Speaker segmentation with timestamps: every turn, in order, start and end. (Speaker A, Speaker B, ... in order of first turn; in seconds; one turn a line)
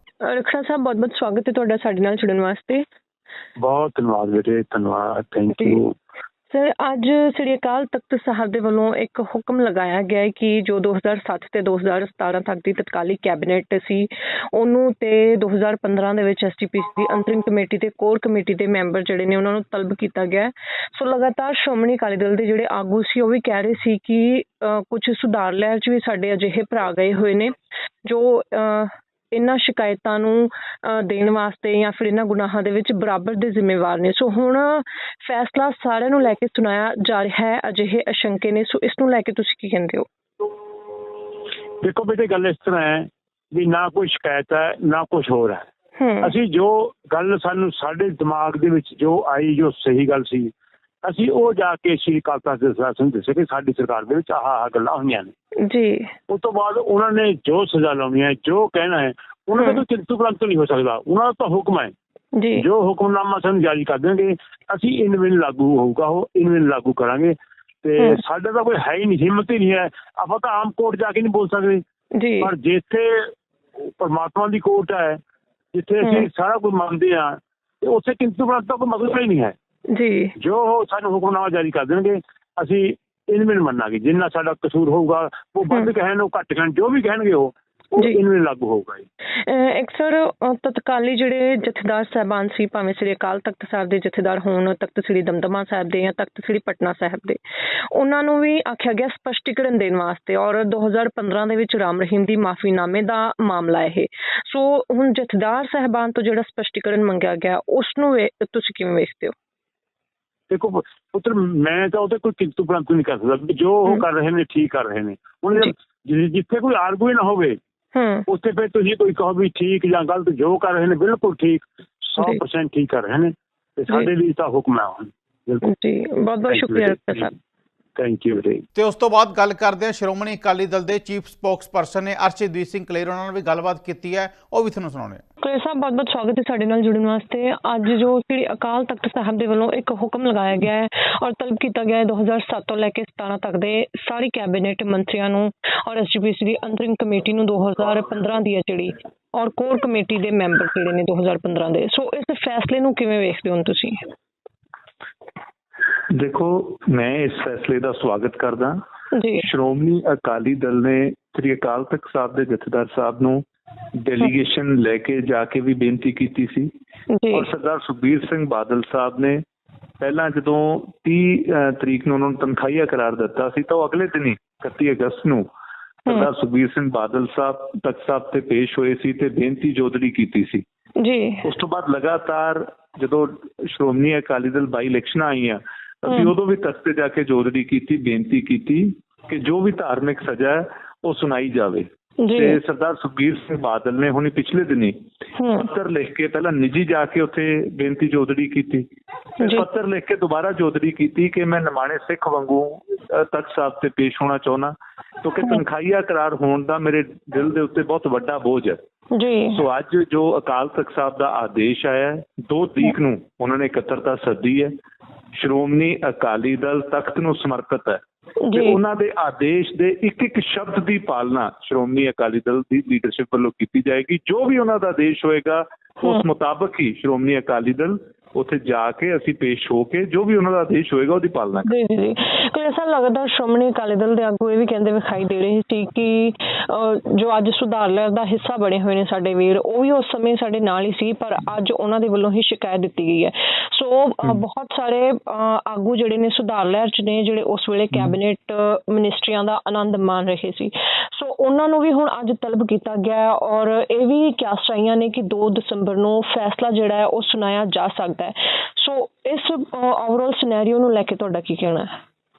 Speaker A: 0.2-2.8
Speaker B: 3.6-5.9
Speaker A: 6.5-40.0
Speaker B: 41.8-45.7
Speaker A: 46.0-46.3
Speaker B: 46.2-50.5
Speaker B: 51.0-55.3
Speaker A: 55.6-56.1
Speaker B: 56.3-61.9
Speaker A: 62.3-62.6
Speaker B: 62.5-71.8
Speaker A: 72.1-72.5
Speaker B: 72.4-73.3
Speaker B: 73.8-75.2
Speaker B: 75.7-79.5
Speaker A: 79.9-80.3
Speaker B: 80.4-89.0
Speaker A: 89.4-97.4
Speaker A: 97.9-109.3
Speaker B: 110.5-117.6
Speaker A: 117.9-118.2
Speaker B: 118.3-125.7
Speaker A: 125.6-127.3
Speaker B: 126.5-127.3
Speaker B: 128.0-128.6
Speaker C: 128.7-135.2
Speaker A: 135.4-154.1
Speaker D: 156.1-158.7
Speaker A: 159.1-159.4
Speaker D: 159.4-163.4
Speaker D: 164.0-166.7
Speaker A: 167.1-167.5
Speaker D: 167.3-169.4
Speaker D: 170.0-175.4
Speaker D: 176.1-180.6
Speaker A: 181.0-181.4
Speaker D: 181.4-194.9
Speaker A: 186.1-186.3
Speaker A: 192.2-192.6
Speaker A: 195.4-195.7
Speaker D: 195.6-198.9
Speaker D: 199.4-208.8
Speaker A: 199.4-199.6
Speaker A: 209.1-209.6
Speaker D: 209.5-214.7
Speaker D: 215.4-218.0
Speaker A: 218.4-218.8
Speaker D: 218.5-231.7
Speaker A: 231.6-261.9